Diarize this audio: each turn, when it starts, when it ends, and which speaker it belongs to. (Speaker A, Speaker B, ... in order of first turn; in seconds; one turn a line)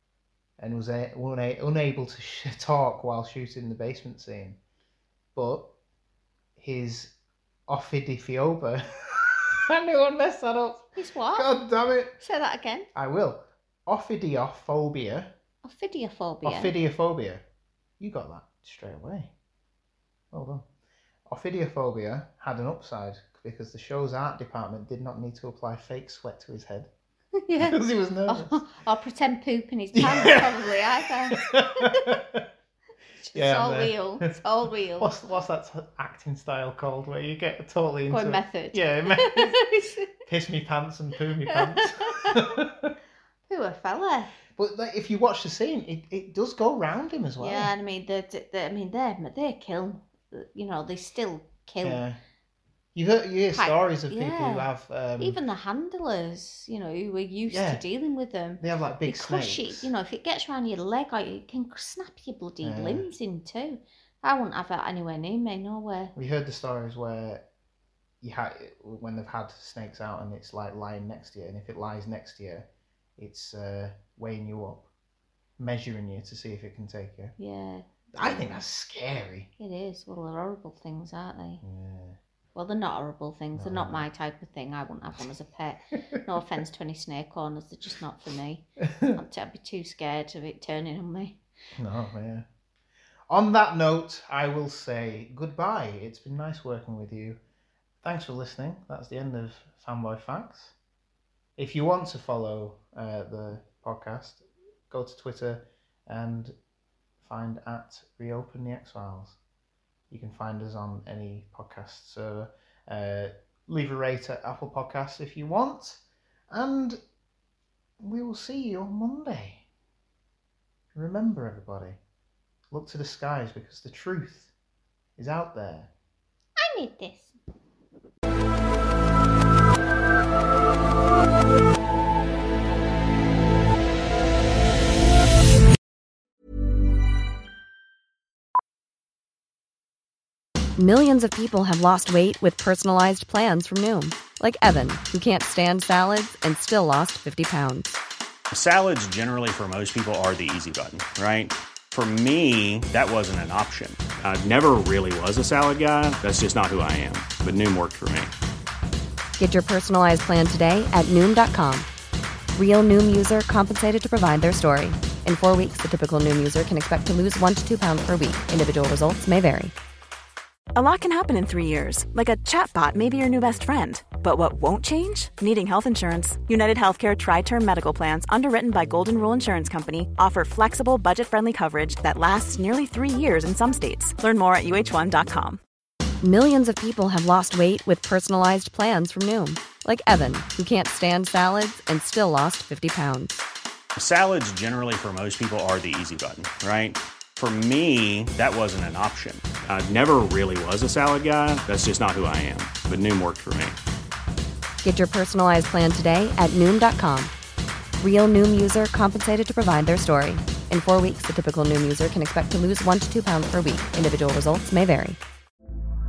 Speaker A: 0.6-4.6
Speaker A: 5.3-5.7
Speaker A: 6.6-7.2
Speaker A: 7.7-12.2
Speaker B: 10.9-11.5
Speaker B: 12.2-12.9
Speaker A: 12.9-15.3
Speaker B: 15.6-16.7
Speaker A: 16.4-17.4
Speaker A: 18.0-19.3
Speaker A: 20.3-20.7
Speaker A: 21.3-26.9
Speaker B: 27.4-32.0
Speaker A: 27.6-28.6
Speaker A: 29.9-32.5
Speaker B: 33.2-35.1
Speaker A: 33.3-34.3
Speaker A: 35.0-39.6
Speaker B: 38.1-40.1
Speaker A: 40.2-42.9
Speaker B: 41.5-42.5
Speaker B: 43.5-44.3
Speaker A: 44.5-47.7
Speaker B: 47.4-52.0
Speaker A: 51.8-52.2
Speaker A: 53.0-55.4
Speaker B: 53.5-66.1
Speaker A: 57.5-57.8
Speaker A: 58.6-59.9
Speaker A: 62.6-63.1
Speaker A: 66.2-67.5
Speaker A: 68.2-74.9
Speaker A: 75.6-77.3
Speaker B: 77.4-78.6
Speaker A: 78.2-79.5
Speaker B: 79.6-81.6
Speaker A: 81.6-82.2
Speaker B: 82.5-91.4
Speaker A: 83.6-84.0
Speaker A: 88.8-89.2
Speaker A: 91.8-92.5
Speaker A: 93.3-97.4
Speaker A: 98.0-100.8
Speaker A: 101.6-106.5
Speaker A: 107.2-109.4
Speaker A: 110.1-117.0
Speaker A: 118.0-119.7
Speaker A: 120.9-122.0
Speaker A: 122.7-124.5
Speaker A: 125.2-125.9
Speaker B: 126.6-127.4
Speaker C: 140.8-148.0
Speaker D: 148.5-158.3
Speaker C: 159.4-161.9
Speaker C: 162.6-169.7
Speaker E: 170.8-185.6
Speaker C: 186.2-193.4
Speaker D: 194.0-203.8
Speaker C: 204.8-207.3
Speaker C: 208.0-215.2